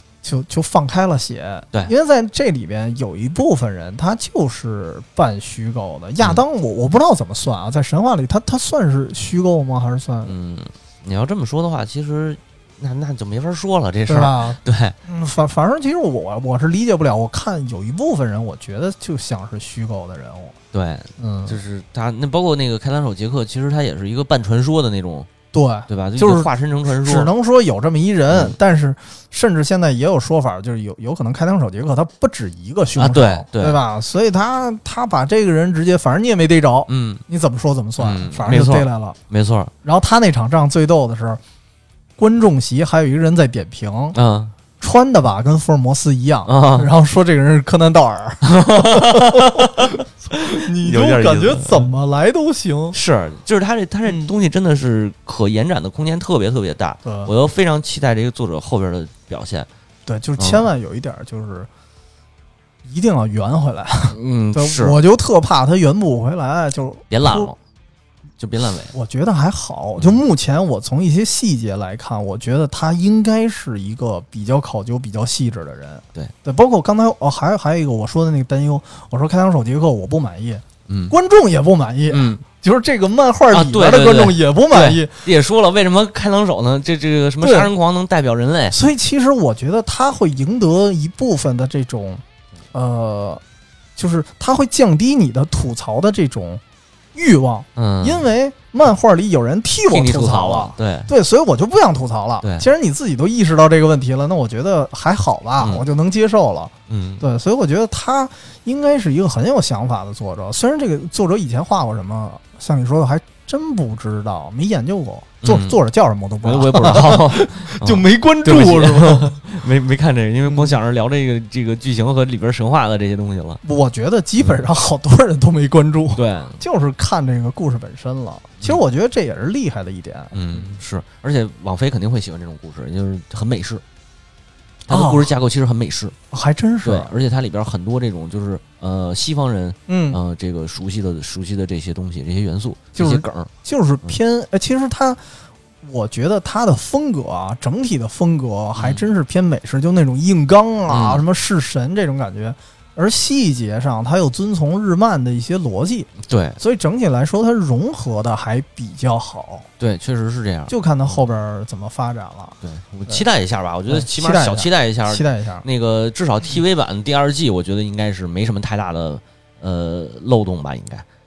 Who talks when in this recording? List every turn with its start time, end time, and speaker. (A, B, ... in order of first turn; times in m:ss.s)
0:00.2-0:10.3 A
0:10.2-0:14.9 B
0:14.1-0:20.6 A
0:20.7-0:25.3 B
0:21.2-0:21.6 A
0:25.5-0:39.2 A
0:25.9-0:27.3 B
0:28.3-0:28.6 B
0:33.0-0:33.8 B
0:36.9-0:37.2 B
0:38.0-0:39.7 B
0:39.8-0:41.4 A
0:42.2-0:44.2 A
0:44.1-0:44.5 B
0:44.8-0:53.0 A
0:46.4-0:46.9 B
0:48.4-0:51.9 B
0:52.9-0:59.7 B
0:54.0-0:54.3 A
0:57.0-0:57.3 A
1:00.0-1:01.7 A
1:00.4-1:00.6 B
1:02.8-1:07.5 A
1:04.1-1:05.0 B
1:07.1-1:07.6 B
1:08.4-1:08.9 B
1:08.9-1:25.2 A
1:20.9-1:21.2 B
1:22.1-1:22.4 B
1:23.5-1:28.8 B
1:27.4-1:27.7 A
1:28.7-1:33.4 A
1:34.0-1:36.6 A
1:37.1-1:59.4 A
1:37.8-1:38.3 B
1:39.9-1:41.1 B
1:42.4-1:42.7 B
1:46.9-1:47.2 B
1:55.4-1:55.8 B
1:56.4-2:03.6 B
2:00.4-2:00.8 A
2:03.6-2:10.8 A
2:06.1-2:06.6 B
2:10.3-2:13.8 B
2:14.9-2:15.3 A
2:14.9-2:16.1 B
2:16.3-2:17.1 A
2:16.8-2:23.5 B
2:19.9-2:20.2 A
2:23.0-2:25.2 A
2:25.8-2:39.7 A
2:28.8-2:29.0 B
2:30.9-2:31.2 B
2:36.2-2:36.6 B
2:39.8-2:41.2 B
2:40.7-2:42.6 A
2:42.6-2:51.0 B
2:43.9-2:45.6 A